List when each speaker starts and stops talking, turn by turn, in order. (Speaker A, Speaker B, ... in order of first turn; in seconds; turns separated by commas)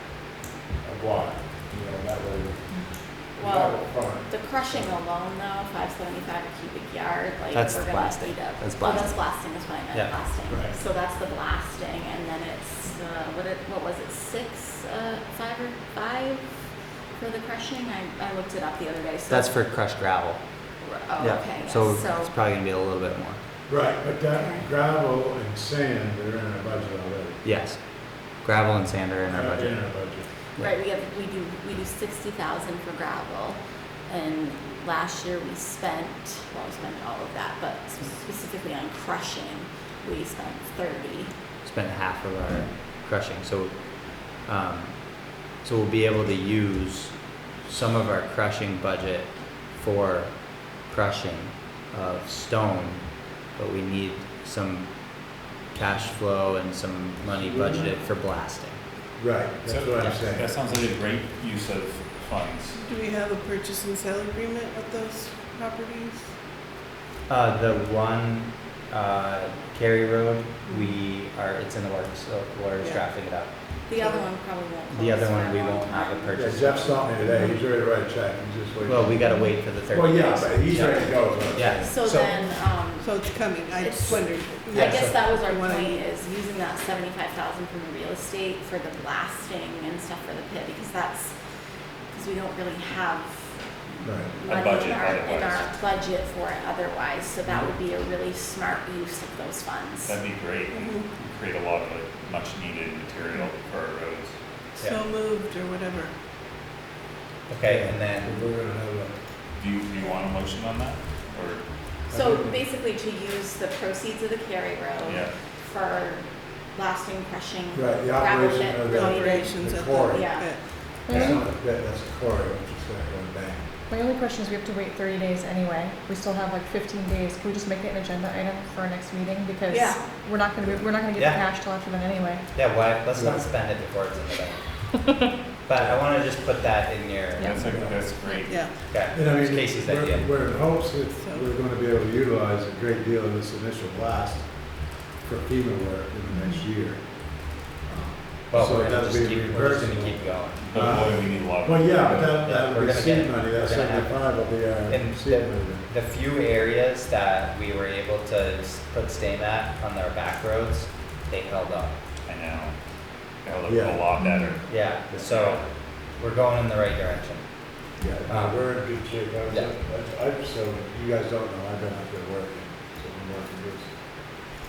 Speaker A: 0.8-4.9, Speaker B: 3.4-16.5, Speaker C: 7.5-10.1, Speaker A: 10.5-10.8, Speaker B: 17.1-19.5, Speaker C: 19.3-20.4, Speaker B: 20.8-22.3, Speaker C: 21.2-23.4, Speaker A: 23.7-27.4, Speaker B: 24.3-24.6, Speaker C: 27.4-30.7, Speaker A: 29.3-30.3, Speaker B: 30.6-41.3, Speaker C: 41.6-58.8, Speaker A: 57.3-58.0, Speaker A: 59.2-60.5, Speaker D: 59.6-62.8, Speaker E: 62.7-66.3, Speaker C: 67.3-73.5, Speaker E: 70.7-70.9, Speaker B: 73.9-76.3, Speaker E: 74.0-74.2, Speaker C: 74.9-77.2, Speaker A: 76.3-81.9, Speaker C: 78.8-82.4, Speaker B: 81.6-91.3, Speaker E: 83.0-86.1, Speaker C: 84.7-85.2, Speaker B: 92.1-100.2, Speaker A: 94.0-94.3, Speaker D: 94.4-95.7, Speaker D: 100.0-104.3, Speaker E: 100.7-101.0, Speaker E: 104.8-106.1, Speaker C: 107.5-108.4, Speaker A: 107.6-109.2, Speaker D: 109.5-111.7, Speaker B: 112.1-121.1, Speaker A: 112.1-112.6, Speaker D: 115.0-115.3, Speaker A: 117.7-120.4, Speaker E: 118.9-120.6, Speaker F: 121.0-121.4, Speaker A: 121.1-123.7, Speaker F: 123.9-132.5, Speaker E: 129.7-130.0, Speaker B: 129.7-130.0, Speaker A: 130.6-130.8, Speaker C: 131.1-131.5, Speaker C: 132.5-134.8, Speaker A: 133.1-133.4, Speaker C: 135.6-138.1, Speaker F: 137.4-137.6, Speaker D: 137.4-138.7, Speaker A: 137.7-137.9, Speaker E: 138.5-138.8, Speaker C: 138.9-140.5, Speaker A: 139.1-155.9, Speaker E: 141.1-141.5, Speaker F: 146.3-146.6, Speaker C: 148.5-150.7, Speaker D: 150.7-152.5, Speaker C: 152.2-162.0, Speaker D: 162.2-162.8, Speaker D: 163.4-165.6, Speaker A: 163.7-164.1, Speaker F: 164.2-164.6, Speaker C: 164.7-167.5, Speaker A: 168.0-173.9, Speaker C: 168.3-169.7